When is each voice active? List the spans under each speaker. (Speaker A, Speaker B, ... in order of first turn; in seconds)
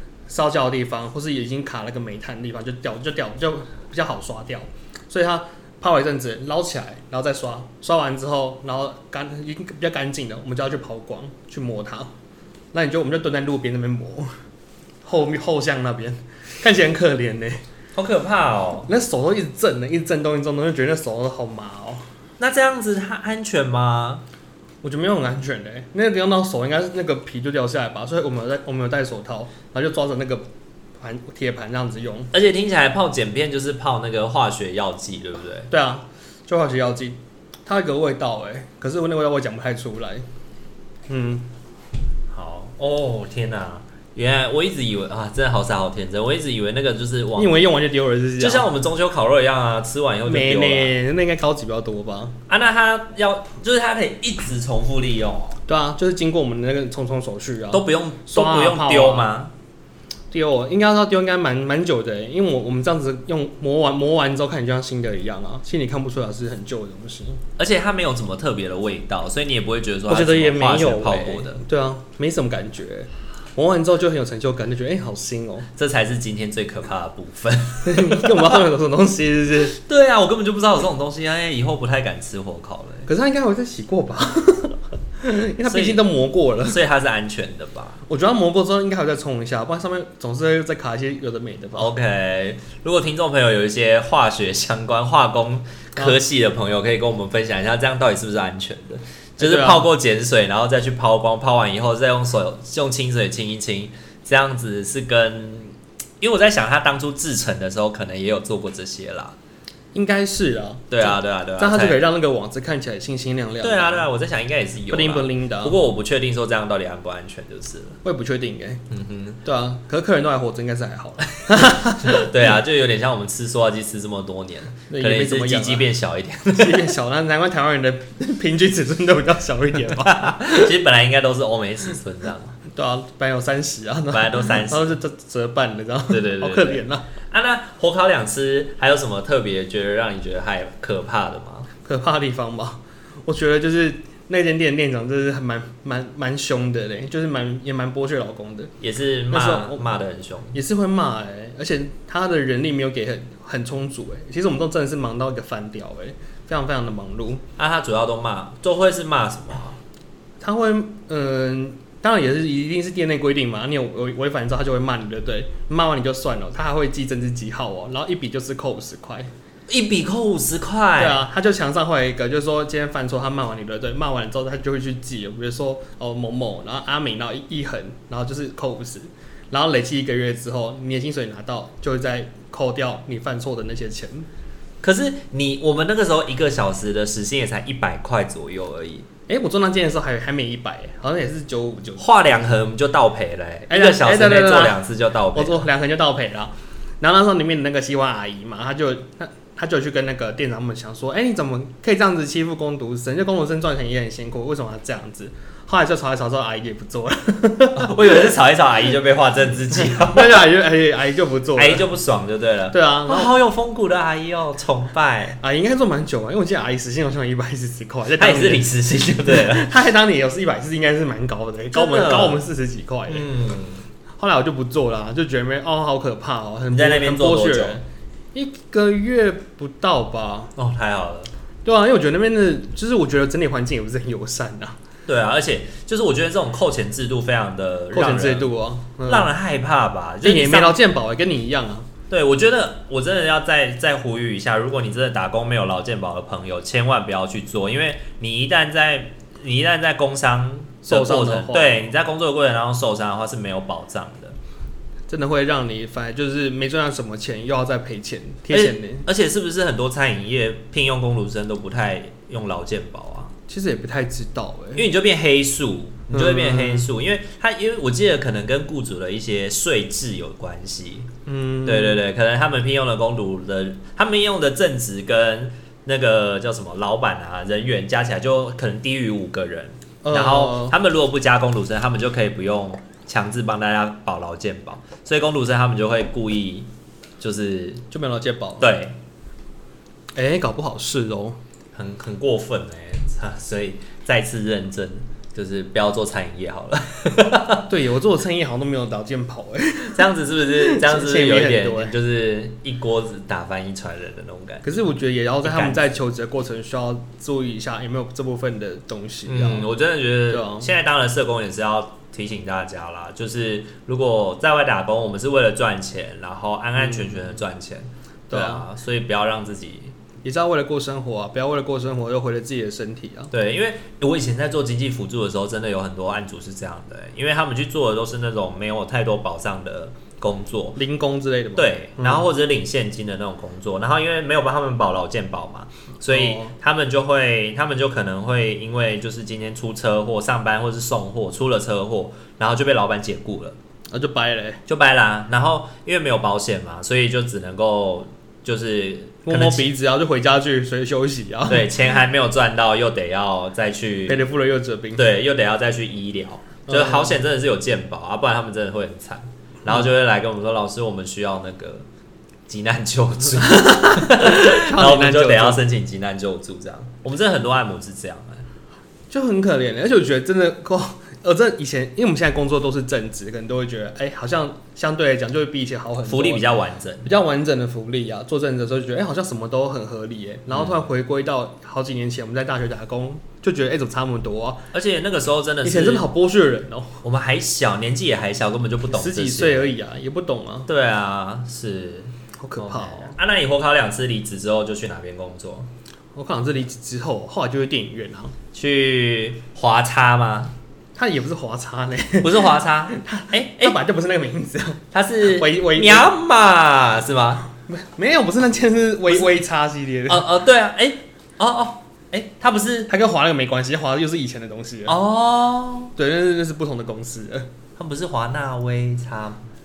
Speaker A: 0.3-12.1, 12.7-14.3, 15.0-17.6, 18.9-22.1, 24.8-30.5, 31.0-32.3, 35.7-40.3, 41.1-41.5, 47.4-48.7, 50.2-52.4, 55.6-59.3, 60.3-67.4, 70.1-75.7, 77.8-79.8, 83.0-86.8, 88.1-91.9, 99.4-99.8, 109.9-114.1, 114.9-115.8, 118.0-118.8, 119.4-122.5, 124.9-125.9, 126.5-130.7, 132.7-137.1, 141.8-148.7, 149.3-150.0, 150.5-157.4, 160.4-169.3, 171.0-184.3, 189.3-192.0, 193.7-194.8, 195.3-208.3, 209.7-211.9, 212.7-213.3, 215.4-223.3, 224.2-230.5, 231.6-234.8, 237.9-239.3, 240.2-241.9, 250.8-251.8, 255.1-259.1, 263.5-264.8, 266.1-266.9, 271.2-272.0, 280.0-280.7, 287.9-288.7, 290.1-291.4, 297.7-300.0, 300.5-302.0, 304.6-309.7, 310.3-310.7, 316.8-317.3, 318.3-318.6, 320.2-323.3, 330.8-332.2, 336.1-336.5, 343.9-344.6, 349.2-351.7, 354.1-355.0, 356.7-357.1, 363.4-365.6, 369.1-376.4, 377.0-384.7, 385.6-387.0, 388.9-390.7, 392.4-393.1, 396.1-398.4, 400.9-406.1, 407.6-410.2, 412.9-415.0, 415.9-417.5
Speaker B: 17.9-18.9, 22.4-24.2, 32.3-35.7, 42.3-47.6, 48.4-50.9, 52.5-55.6, 57.7-59.5, 67.6-71.6, 75.8-78.6, 79.7-83.1, 85.7-86.0, 86.6-88.0, 91.8-109.3, 110.9-112.0, 113.6-118.0, 118.9-119.4, 121.5-126.8, 130.0-132.6, 134.1-134.9, 136.1-141.7, 148.8-150.6, 157.6-159.8, 169.7-171.2, 184.8-189.1, 192.0-195.7, 207.7-210.4, 211.6-215.4, 218.2-219.7, 221.7-222.5, 223.1-223.8, 226.7-227.8, 230.6-231.3, 235.1-238.5, 239.0-240.8, 242.1-254.4, 258.5-263.3, 264.7-271.1, 271.6-286.7, 287.2-287.8, 288.6-289.0, 291.7-297.7, 299.9-304.6, 305.4-305.8, 309.2-319.9, 323.3-330.8, 331.6-343.6, 344.7-349.7, 351.5-354.3, 354.9-361.9, 362.5-368.5, 376.1-377.1, 384.7-386.1, 387.0-389.7, 390.7-395.7, 398.5-400.5, 402.2-403.8, 404.9-407.5, 410.1-412.9, 414.9-415.9, 417.8-419.4